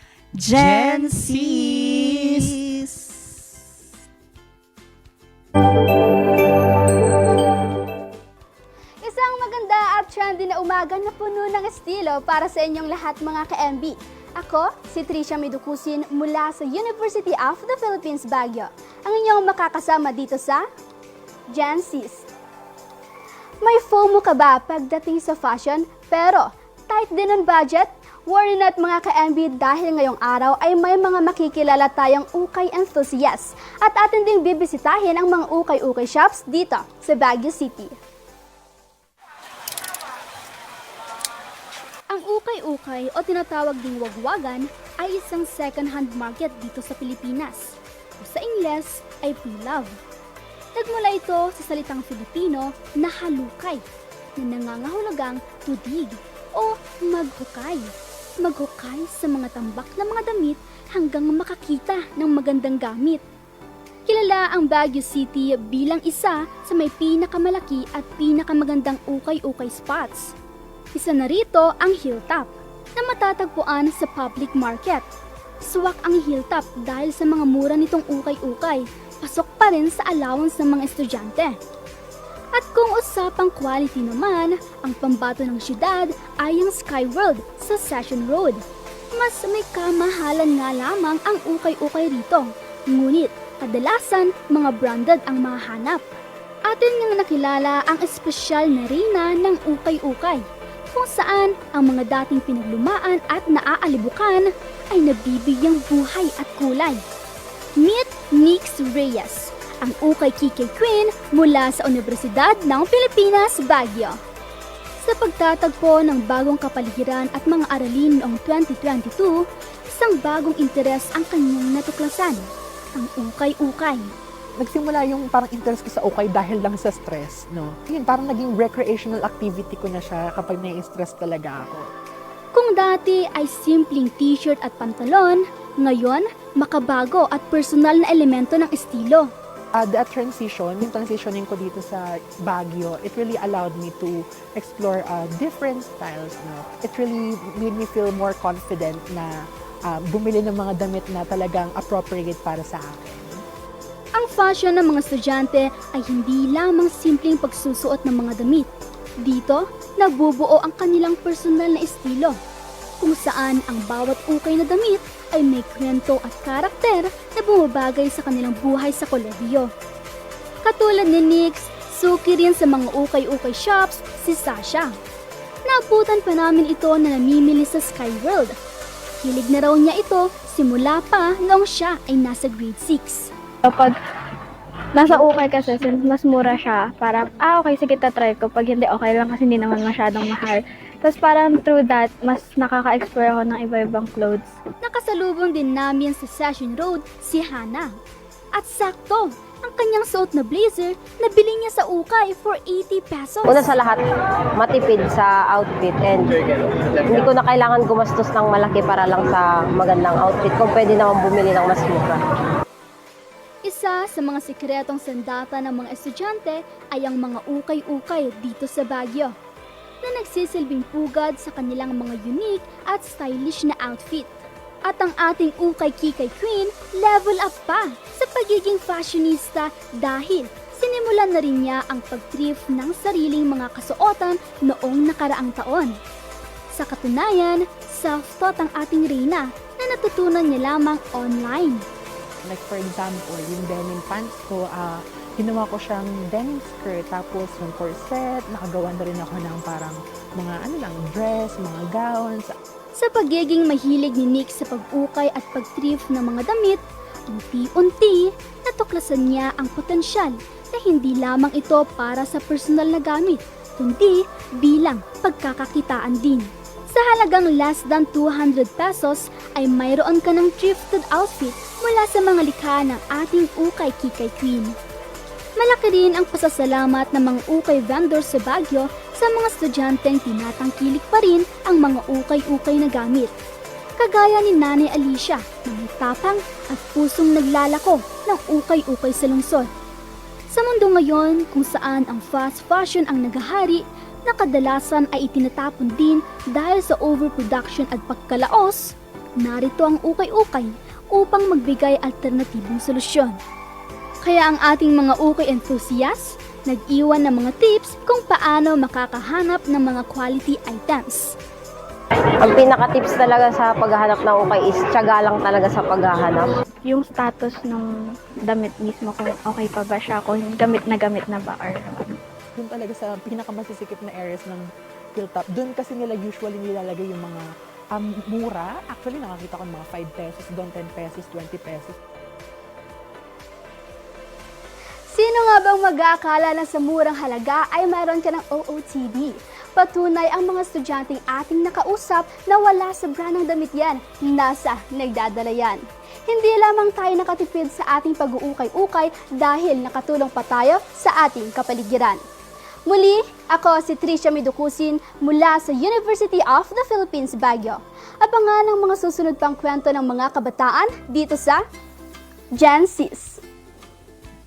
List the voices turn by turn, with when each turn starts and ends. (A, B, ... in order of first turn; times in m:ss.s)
0:00.4-0:02.9 A
0:09.0-0:20.6 B
0:21.5-0:22.3 B
0:23.6-0:38.0 B
0:42.1-0:49.9 B
0:50.8-0:53.8 B
0:54.4-1:03.2 B
1:04.1-1:10.3 B
1:11.0-1:15.1 B
1:15.6-1:21.6 B
1:22.5-1:28.6 B
1:29.2-1:36.0 B
1:36.7-1:47.0 B
1:47.8-1:54.2 B
1:55.0-2:04.1 B
2:04.6-2:11.9 C
2:12.5-2:19.3 B
2:19.8-2:29.4 C
2:29.9-2:33.4 C
2:34.2-2:38.7 B
2:39.2-2:42.4 B
2:43.0-2:49.7 B
2:50.6-2:54.9 B
2:55.7-2:58.6 B
2:59.2-3:03.3 B
3:03.6-3:04.0 D
3:04.9-3:14.6 D
3:14.8-3:17.9 B
3:18.6-3:23.8 B
3:23.5-3:24.0 E
3:24.6-3:26.5 E
3:27.1-3:32.2 E
3:33.7-3:39.3 B
3:40.0-3:44.4 B
3:44.9-3:56.0 B
3:56.7-4:01.8 B
4:02.4-4:12.6 C
4:13.0-4:34.8 B
4:35.6-4:43.3 B
4:44.0-4:49.7 B
4:50.5-4:58.8 B
4:59.4-5:03.4 B
5:04.2-5:11.3 B
5:12.4-5:16.5 E
5:16.9-5:17.9 D
5:18.5-5:22.2 D
5:22.6-5:27.4 C
5:27.9-5:32.0 C
5:35.1-5:52.2 B
5:52.9-6:01.6 B
6:02.6-6:03.4 B